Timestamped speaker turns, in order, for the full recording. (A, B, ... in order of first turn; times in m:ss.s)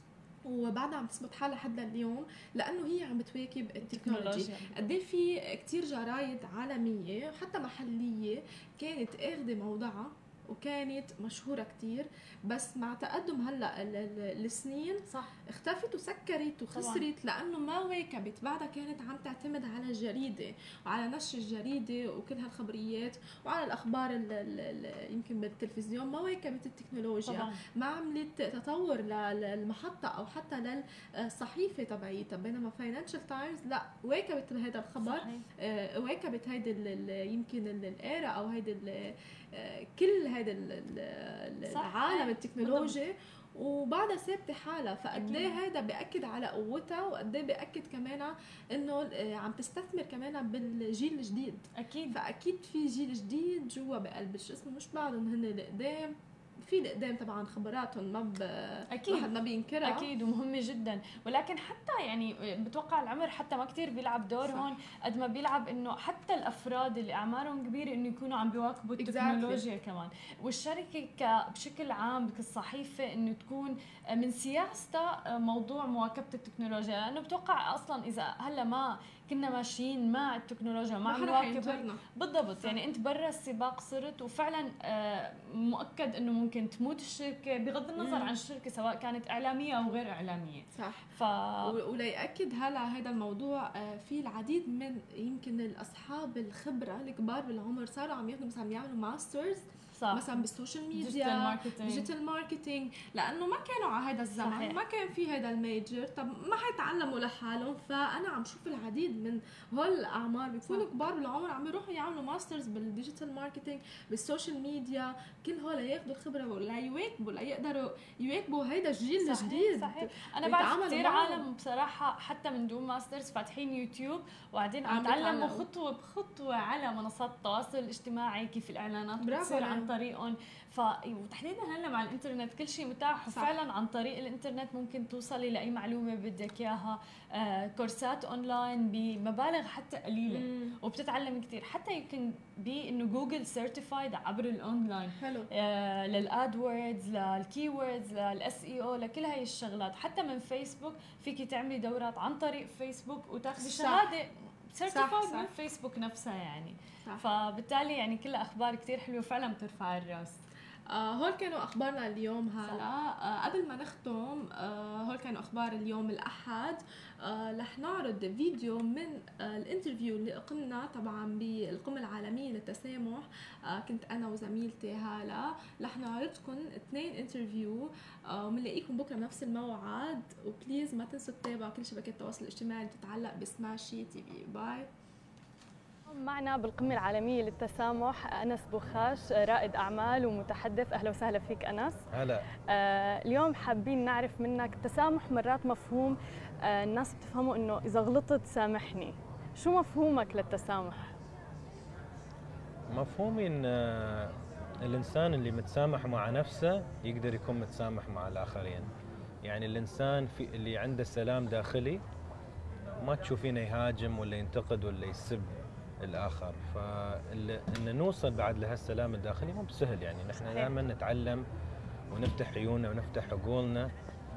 0:00.4-1:00.1 A
0:03.8-0:04.8 B
0:16.7-0:17.1 B
0:27.3-0:27.6 B
0:35.0-0:35.4 B
0:41.7-0:42.9 B
0:45.2-0:45.6 B
0:51.8-0:52.2 B
0:58.9-0:59.3 B
0:59.8-1:31.8 B
1:09.0-1:09.6 A
1:21.1-1:22.0 A
1:28.0-1:28.3 A
1:30.8-1:31.1 A
1:31.6-2:01.4 A
1:40.0-1:40.4 B
1:40.9-1:42.1 B
1:44.4-1:44.8 B
1:59.2-2:40.4 B
2:04.9-2:05.6 A
2:09.2-2:09.9 A
2:13.3-2:13.5 A
2:20.3-2:20.8 A
2:25.2-2:25.5 A
2:33.6-2:34.1 A
2:34.9-2:35.5 A
2:40.9-3:04.9 A
3:06.2-3:12.0 C
3:12.1-3:12.5 D
3:12.7-3:21.1 C
3:22.9-3:28.9 D
3:29.4-3:32.0 D
3:33.0-3:41.4 D
3:42.1-3:43.9 D